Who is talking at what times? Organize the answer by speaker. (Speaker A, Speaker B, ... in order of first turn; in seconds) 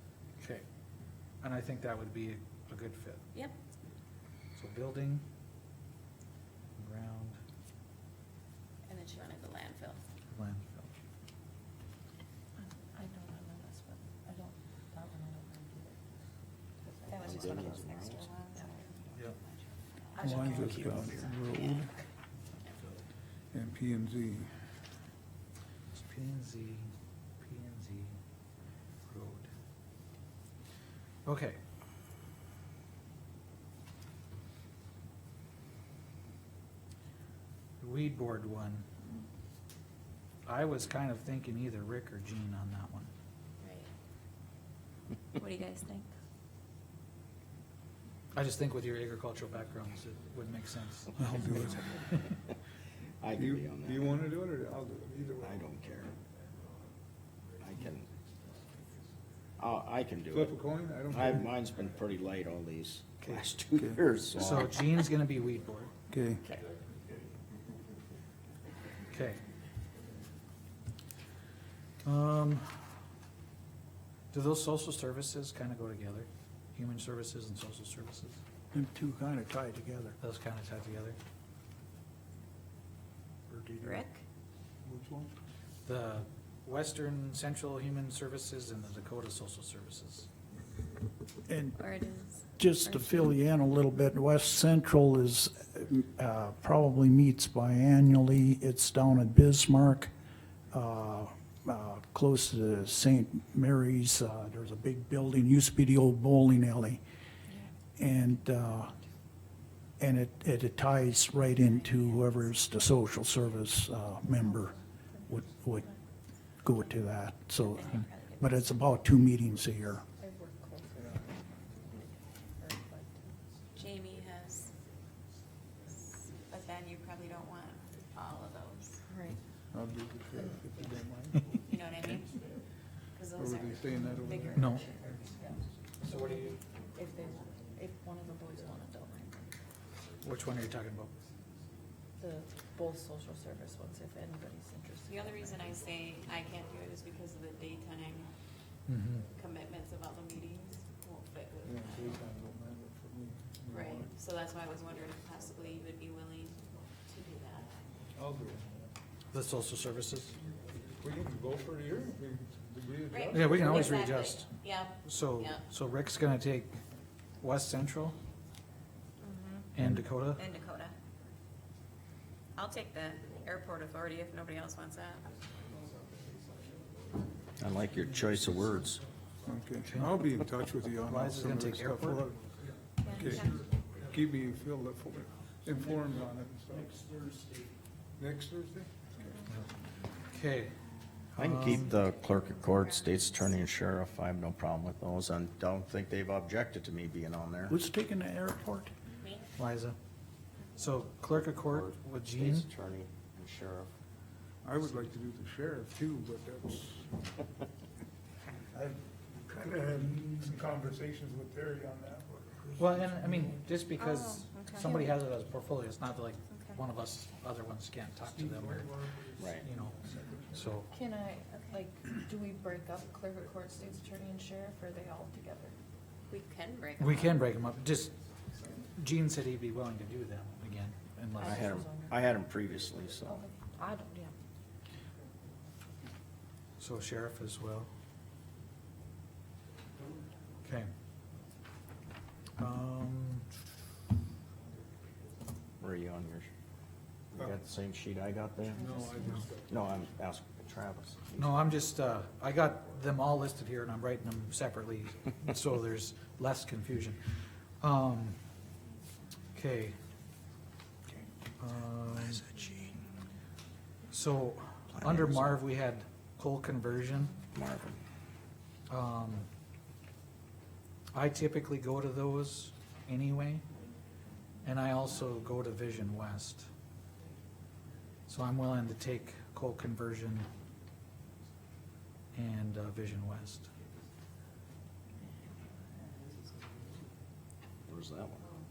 Speaker A: 1.4-3.2, 4.5-5.2, 6.8-7.4, 10.3-10.9, 25.9-28.2, 29.1-29.5, 31.2-31.6, 37.8-38.9, 40.5-43.1, 48.3-52.3, 64.3-65.9, 69.1-69.4, 72.0-72.9, 74.3-78.4, 80.2-81.2, 85.8-90.3, 134.6-134.9, 136.0-136.6, 140.2-141.1, 148.9-149.3, 159.3-160.3, 163.3-164.5, 165.0-166.8, 167.4-168.2, 169.7-170.4, 179.8-180.2, 180.9-182.3, 190.3-190.7, 191.3-192.0, 199.6-200.0, 200.8-202.7, 204.8-205.1, 212.8-219.0, 219.6-220.9, 227.0-228.1, 228.9-231.7, 236.8-237.9, 240.6-240.9, 242.6-243.5, 251.3-258.4, 259.5-260.0, 261.6-262.4, 264.1-267.3, 268.9-269.5, 271.1-273.6, 274.6-276.7, 278.3-280.5, 282.3-283.7
Speaker B: 8.9-10.0, 17.1-20.7, 22.6-22.9, 43.6-43.9, 45.4-46.1, 83.8-84.2, 91.8-93.2, 111.3-112.6, 117.6-118.5, 123.7-124.7, 126.1-129.0, 131.7-132.5, 133.1-135.2, 145.1-148.3, 149.3-152.2, 153.7-157.8, 163.1-165.6, 169.2-169.7, 170.3-170.9, 172.5-175.3, 183.0-183.6, 191.7-193.7, 214.0-214.9, 216.5-216.8, 226.3-227.4
Speaker C: 12.7-16.0, 16.8-17.9, 20.2-20.8, 114.4-115.9, 120.2-123.3, 129.1-129.4, 135.2-135.6, 136.9-139.5, 142.2-145.8, 214.8-215.2, 220.9-225.7, 231.3-232.2, 233.2-234.3, 248.8-249.4
Speaker D: 17.2-18.3, 20.5-21.3, 53.2-54.1, 55.4-56.1, 57.6-58.1, 59.6-60.5, 61.1-65.0, 177.6-179.0, 191.4-197.8, 201.4-203.9, 219.4-219.7, 231.4-233.4, 245.8-246.5, 247.3-248.9, 249.7-251.5, 262.1-263.0, 264.9-265.6, 267.5-268.0, 287.9-288.4
Speaker E: 20.2-21.9, 78.7-80.2, 83.5-84.0, 91.5-91.9, 92.6-100.1, 100.7-107.0, 108.0-108.9, 110.0-115.9, 116.6-120.0, 197.7-198.9
Speaker F: 20.2-21.6, 23.5-24.5, 51.3-51.9, 53.4-55.6, 60.3-61.6, 63.8-64.0, 66.1-66.4, 84.8-85.3, 129.7-131.4, 133.3-134.8, 151.6-154.1, 158.1-158.7, 161.0-163.9, 179.4-182.4, 183.1-187.0, 188.2-189.4, 204.6-207.2, 208.7-213.6, 218.8-219.4, 248.8-250.0